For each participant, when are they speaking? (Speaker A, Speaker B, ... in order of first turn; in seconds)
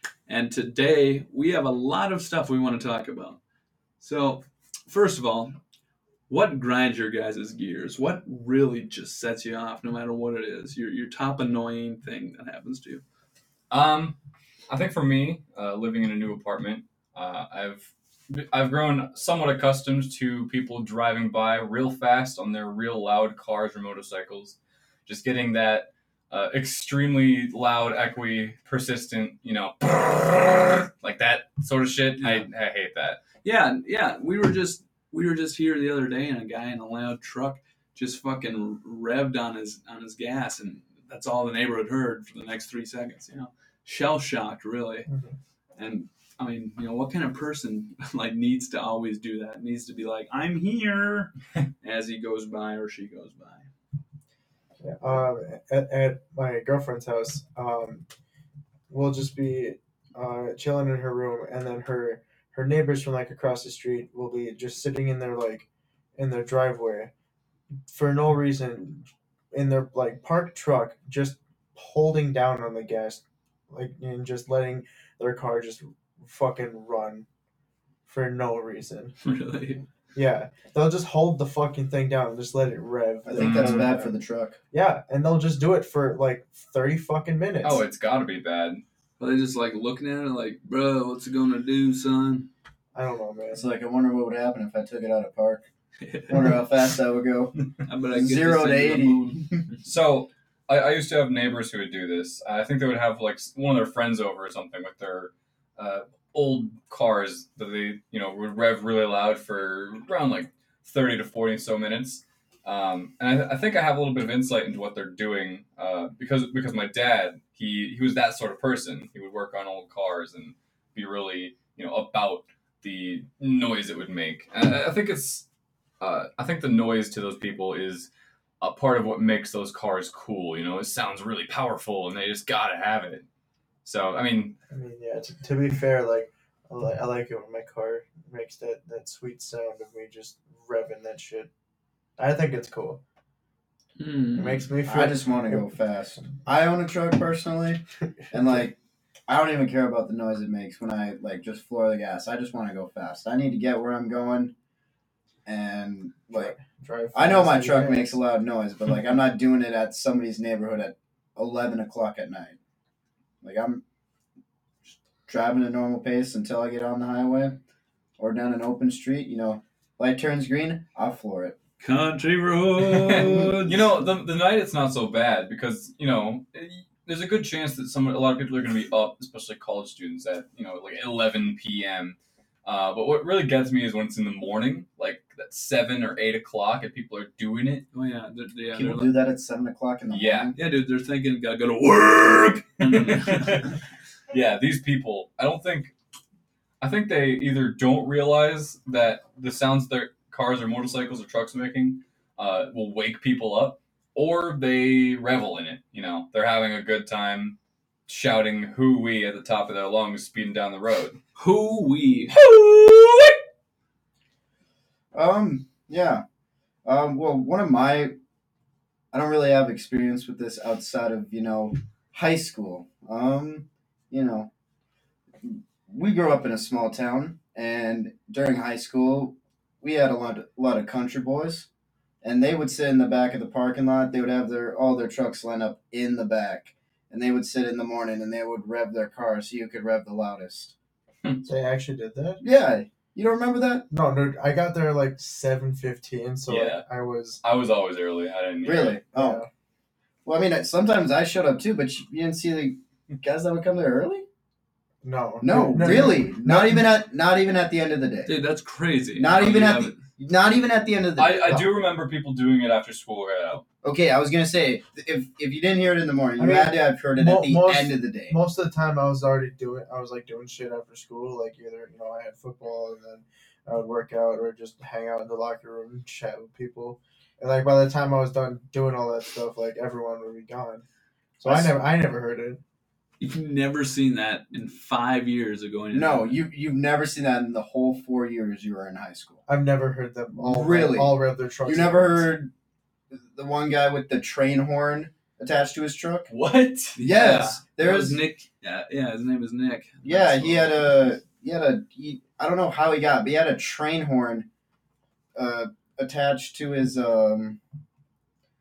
Speaker A: 0.3-3.4, 4.0-5.6, 6.3-13.0, 32.2-32.5, 33.4-45.1, 45.8-53.7, 79.2-79.8, 89.2-92.5, 96.0-96.6, 97.8-99.8, 144.0-144.7, 171.8-173.8, 187.9-189.1, 190.5-193.8, 211.4-212.4, 258.2-260.0, 283.2-286.4, 297.0-301.1
Speaker B: 13.7-14.1, 14.7-33.2, 83.3-83.9, 87.6-88.8, 99.8-125.4, 126.0-128.1, 128.6-133.2, 133.8-134.6, 172.8-187.8, 190.1-190.5, 192.8-193.7, 194.3-195.9, 196.8-211.2, 212.3-213.3, 246.5-246.8, 247.4-249.0, 261.2-263.6, 296.3-297.0
Speaker C: 45.1-45.3, 54.8-58.0, 58.9-67.1, 67.9-77.2, 78.0-79.1, 80.1-84.1, 84.7-87.8, 92.9-93.7, 134.7-141.5, 142.2-143.0, 144.3-146.4, 148.2-148.7, 156.3-158.2, 241.4-242.4, 243.9-247.4, 249.1-249.5, 255.0-256.9, 266.4-280.8, 281.4-282.6, 289.5-292.4
Speaker D: 83.2-84.6, 93.5-95.6, 96.3-97.6, 98.1-99.6, 144.8-148.8, 149.3-154.5, 155.4-156.5, 157.1-162.6, 163.4-163.8, 165.3-167.6, 168.2-171.6, 188.7-190.5, 215.1-216.2, 216.8-218.1, 219.1-224.5, 225.4-231.7, 232.2-240.7, 242.4-243.8, 248.6-249.4, 250.2-254.2, 255.4-258.3, 259.2-261.7, 263.8-268.4, 281.4-281.7, 285.9-289.4, 290.3-291.1, 291.6-292.5, 293.3-296.3, 297.0-298.2, 300.1-304.5, 305.3-307.6